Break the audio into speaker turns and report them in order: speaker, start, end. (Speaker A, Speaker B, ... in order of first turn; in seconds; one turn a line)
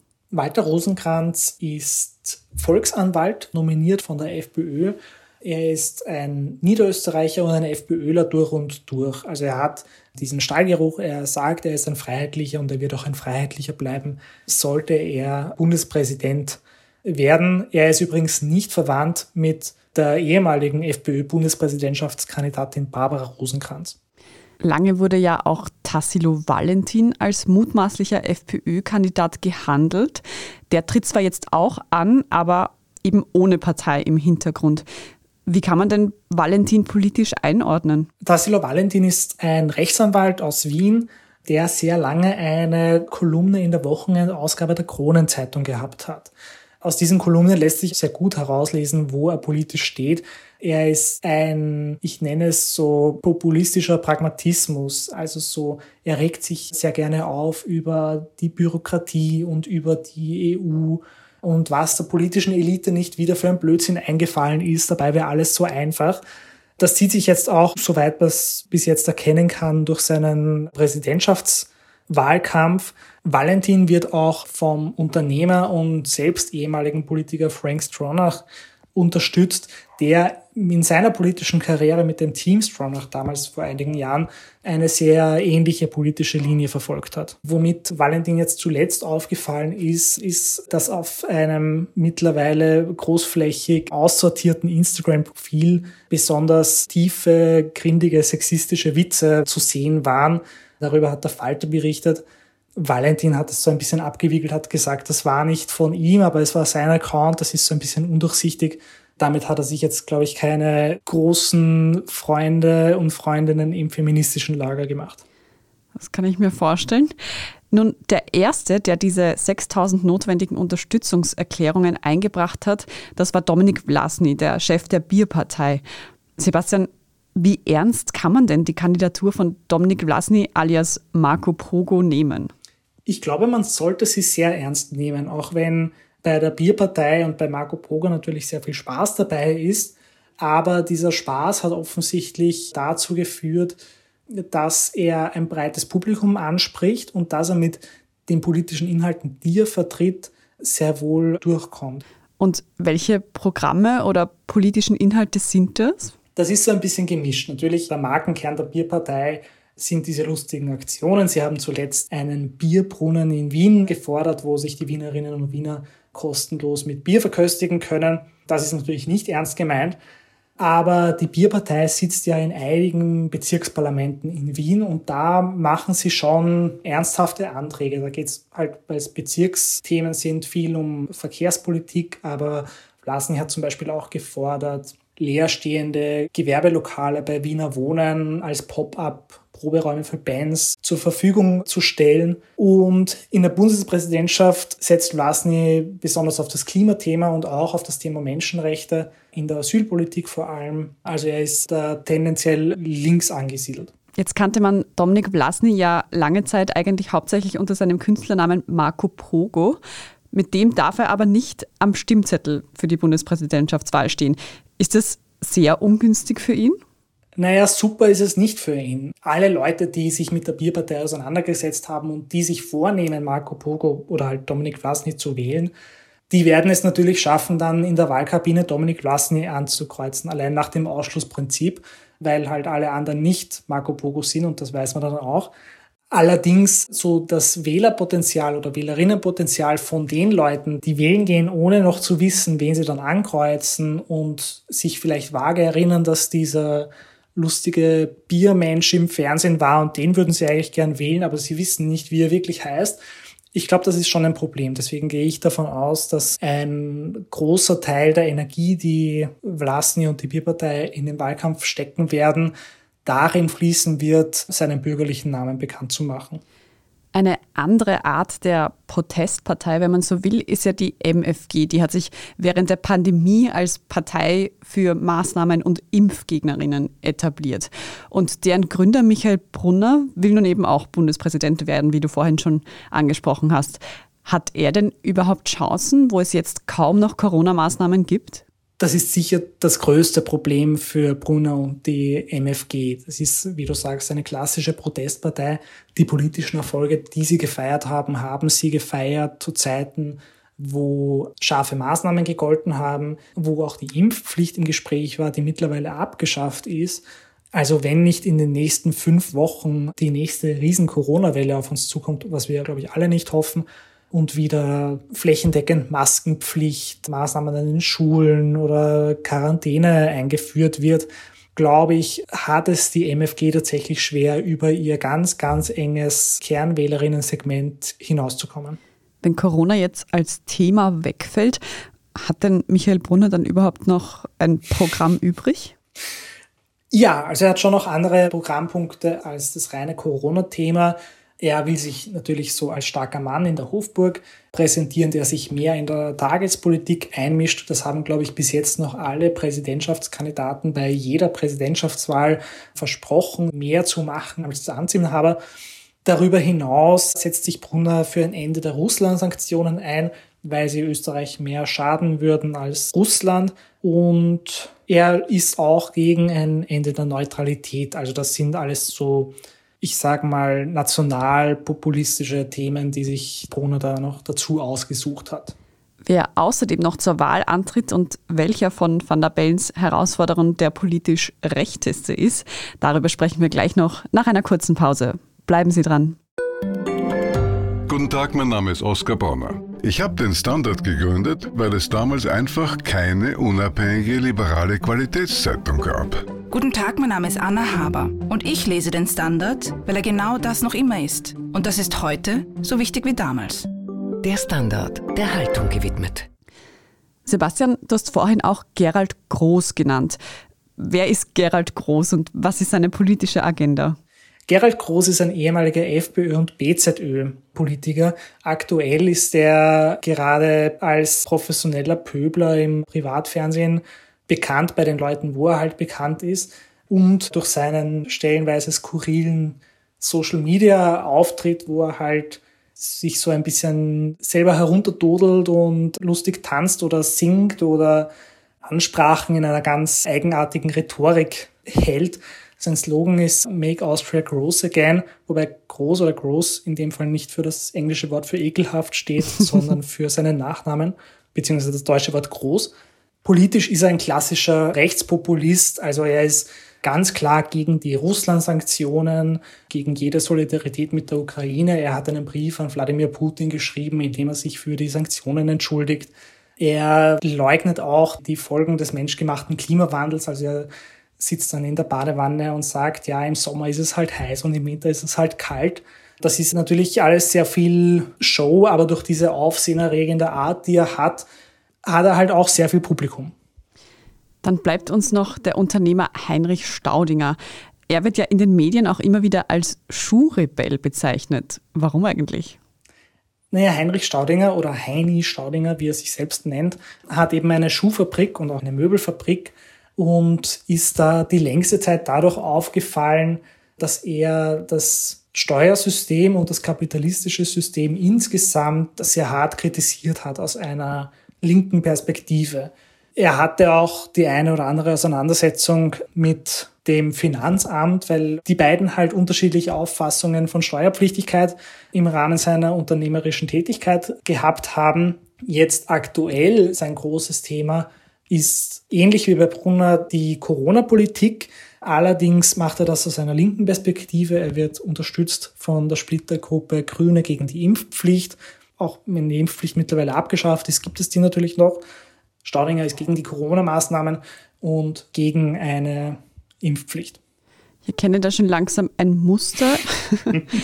Speaker A: 0.3-24.0
Speaker B: 24.6-34.9
Speaker B: 35.5-38.1
Speaker A: 38.2-66.2
Speaker A: 66.8-102.2
Speaker A: 102.8-115.2
Speaker B: 115.9-117.1
Speaker B: 117.7-125.8
Speaker B: 126.4-132.5
Speaker A: 133.1-152.1
Speaker B: 152.4-156.1
Speaker A: 156.4-170.0
Speaker A: 170.6-203.9
Speaker B: 204.2-209.8
Speaker B: 210.3-216.8
Speaker A: 217.4-225.7
Speaker A: 226.3-235.5
Speaker A: 236.1-253.0
Speaker A: 253.5-262.5
Speaker A: 263.1-266.4
Speaker B: 267.1-288.4
Speaker A: 288.8-328.8
Speaker B: 329.2-331.6
Speaker B: 332.1-335.7
Speaker A: 336.9-355.4
Speaker A: 356.0-375.6
Speaker B: 376.0-386.2
Speaker C: 387.9-396.2
Speaker D: 396.5-403.7
Speaker E: 404.2-406.3
Speaker B: 407.3-410.2
Speaker B: 410.8-414.0
Speaker A: 414.5-438.1
Speaker A: 438.6-481.3
Speaker A: 481.8-483.3
Speaker B: 484.4-487.4
Speaker B: 487.9-492.6
Speaker A: 493.5-541.8
Speaker A: 542.4-547.2
Speaker B: 547.9-550.4